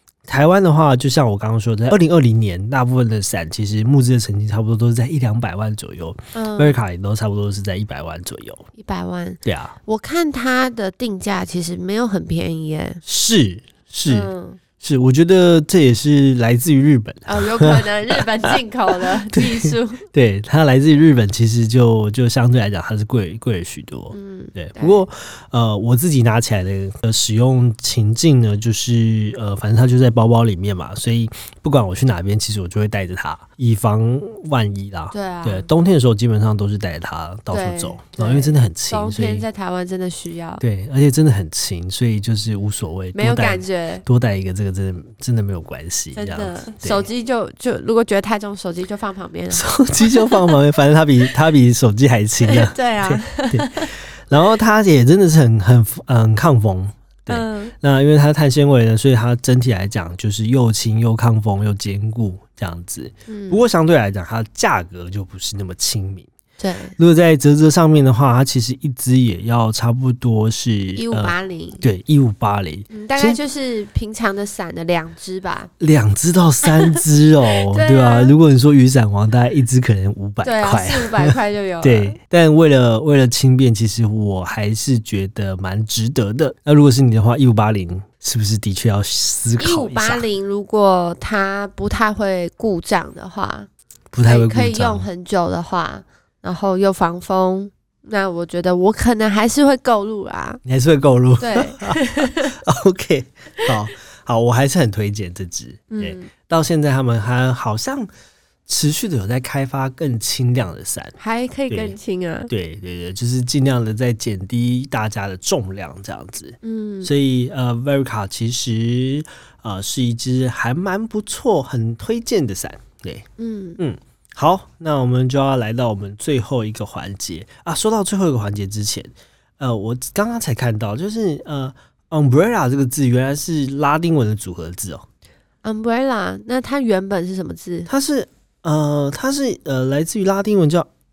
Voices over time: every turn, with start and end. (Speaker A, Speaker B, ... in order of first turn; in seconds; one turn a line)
Speaker A: 0.3-8.7
Speaker B: 6.3-6.8
Speaker B: 8.8-13.0
Speaker A: 9.4-9.7
Speaker A: 13.0-39.5
Speaker B: 14.1-14.6
Speaker B: 17.2-20.0
Speaker B: 24.1-25.0
Speaker B: 35.1-35.7
Speaker B: 37.5-40.6
Speaker A: 40.6-47.1
Speaker B: 43.1-44.0
Speaker B: 46.1-50.6
Speaker A: 49.5-66.3
Speaker B: 52.4-53.9
Speaker B: 57.3-57.7
Speaker B: 63.3-63.6
Speaker B: 66.6-66.9
Speaker A: 67.0-73.4
Speaker B: 71.0-71.8
Speaker B: 72.9-75.7
Speaker A: 75.8-90.2
Speaker B: 76.7-77.0
Speaker B: 77.6-78.3
Speaker B: 80.4-82.2
Speaker B: 89.6-93.7
Speaker A: 94.1-95.0
Speaker B: 94.2-100.6
Speaker A: 100.6-108.1
Speaker B: 101.4-102.6
Speaker B: 105.9-106.3
Speaker A: 108.7-111.2
Speaker B: 111.2-112.5
Speaker A: 111.7-111.9
Speaker A: 112.5-123.2
Speaker B: 116.6-117.1
Speaker B: 123.4-123.8
Speaker A: 123.8-135.0
Speaker B: 135.6-137.9
Speaker A: 137.9-140.9